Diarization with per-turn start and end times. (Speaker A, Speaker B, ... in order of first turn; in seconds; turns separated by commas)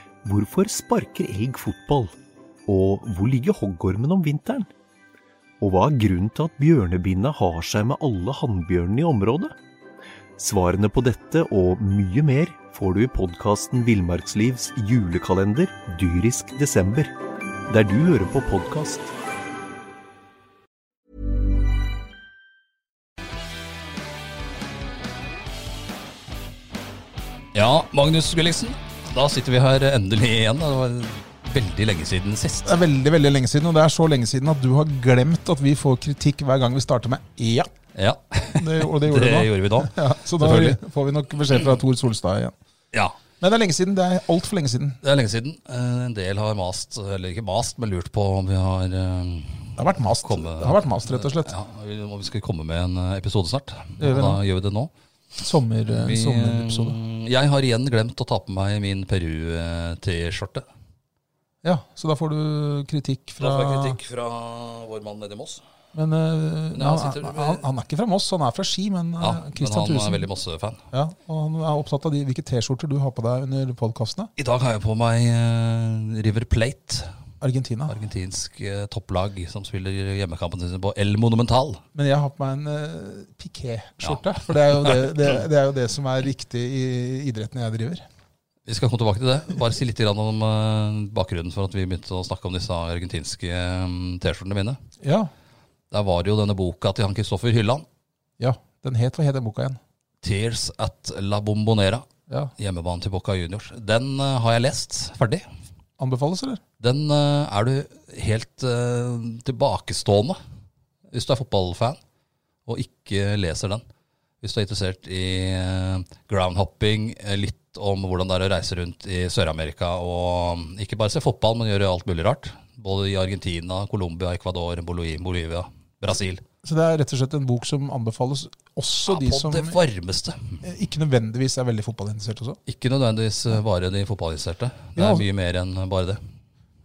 Speaker A: 0.2-2.1, Speaker A: 2.7-4.7, Speaker A: 5.6-9.6, Speaker A: 10.4-17.1, Speaker A: 17.7-19.1, Speaker B: 27.5-32.8, Speaker C: 32.6-37.7, Speaker B: 38.0-40.8, Speaker C: 38.5-42.5, Speaker B: 42.9-43.2, Speaker C: 43.4-45.0, Speaker B: 45.0-54.9, Speaker C: 49.8-51.5, Speaker C: 54.0-54.4, Speaker C: 55.4-57.0, Speaker B: 55.9-60.7, Speaker C: 61.6-64.0, Speaker B: 63.4-65.6, Speaker C: 65.9-70.3, Speaker B: 66.7-67.6, Speaker B: 69.2-70.8, Speaker C: 70.9-74.3, Speaker B: 74.4-77.1, Speaker C: 77.4-78.0, Speaker B: 77.9-81.8, Speaker C: 81.9-88.0, Speaker B: 84.0-85.3, Speaker B: 88.7-94.8, Speaker C: 95.0-95.3, Speaker B: 95.9-97.9, Speaker C: 98.4-99.8, Speaker B: 100.2-105.4, Speaker C: 106.0-106.6, Speaker B: 106.8-110.4, Speaker B: 111.1-112.0, Speaker B: 112.7-113.8, Speaker B: 114.4-126.4, Speaker C: 126.6-129.8, Speaker B: 129.1-130.6, Speaker C: 130.6-132.6, Speaker B: 132.7-136.2, Speaker C: 135.0-135.3